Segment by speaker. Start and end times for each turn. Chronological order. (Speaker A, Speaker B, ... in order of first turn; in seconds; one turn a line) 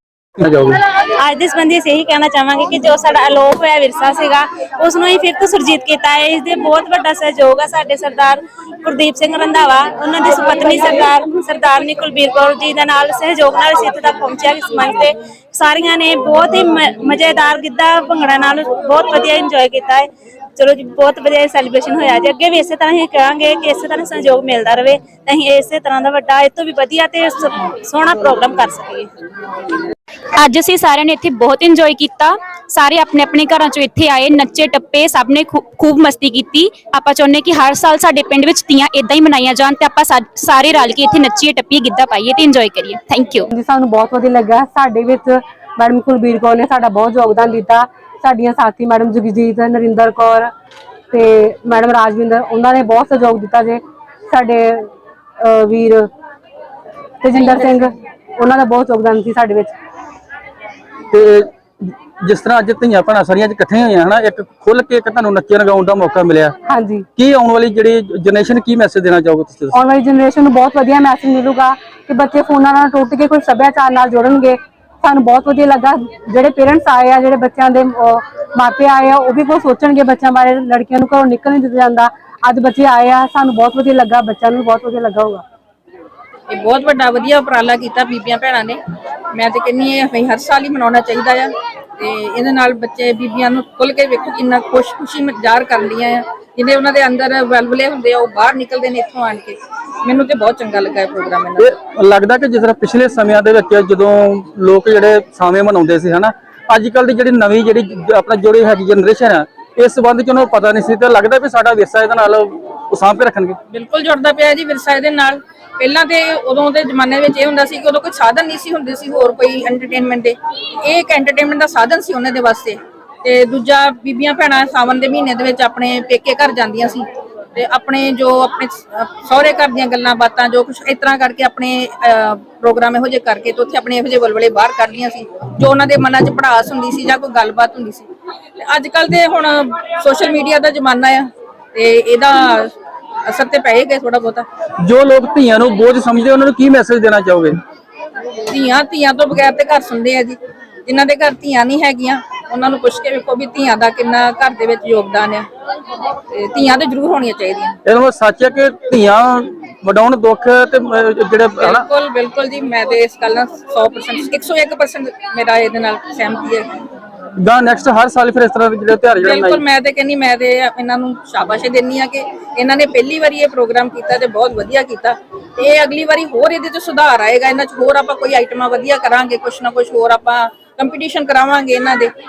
Speaker A: 0.4-0.8
Speaker B: 1.2-29.1
Speaker C: 30.4-43.5
Speaker D: 43.5-50.5
Speaker D: 51.1-56.1
Speaker D: 57.2-59.7
Speaker A: 61.1-66.5
Speaker D: 66.7-67.1
Speaker A: 67.2-69.8
Speaker D: 69.7-85.4
Speaker E: 86.5-88.8
Speaker E: 89.3-101.7
Speaker A: 101.6-113.6
Speaker E: 113.7-138.1
Speaker E: 138.6-142.7
Speaker E: 143.3-144.5
Speaker A: 144.8-147.6
Speaker E: 148.5-155.4
Speaker E: 156.3-157.8
Speaker A: 157.8-161.9
Speaker E: 161.6-166.7
Speaker A: 167.4-169.6
Speaker E: 169.2-182.1